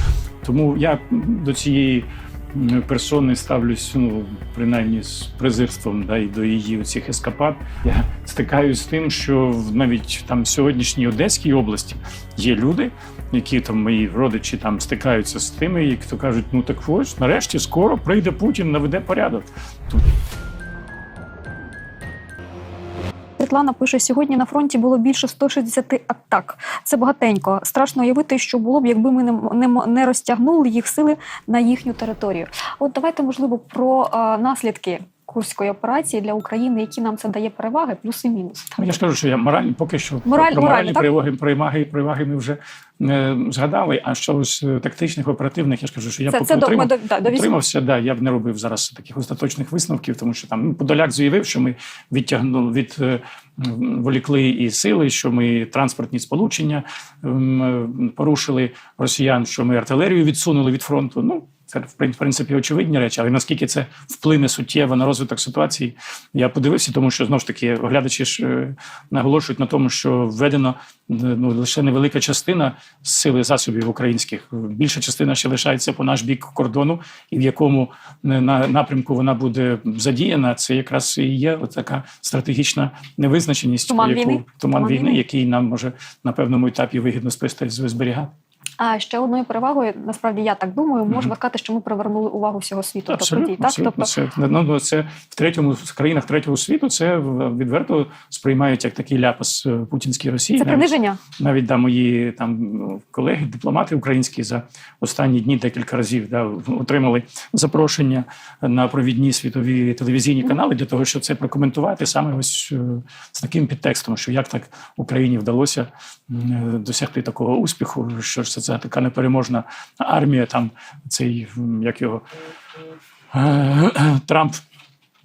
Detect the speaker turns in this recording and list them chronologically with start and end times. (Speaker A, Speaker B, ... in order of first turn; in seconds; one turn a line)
Speaker A: 0.4-20.0
Speaker B: 23.4-39.0
Speaker A: 38.8-88.3
Speaker B: 40.3-41.1
Speaker B: 46.3-47.5
Speaker B: 83.9-85.2
Speaker B: 88.8-94.1
Speaker A: 93.1-122.2
Speaker B: 100.6-101.2
Speaker A: 123.3-124.6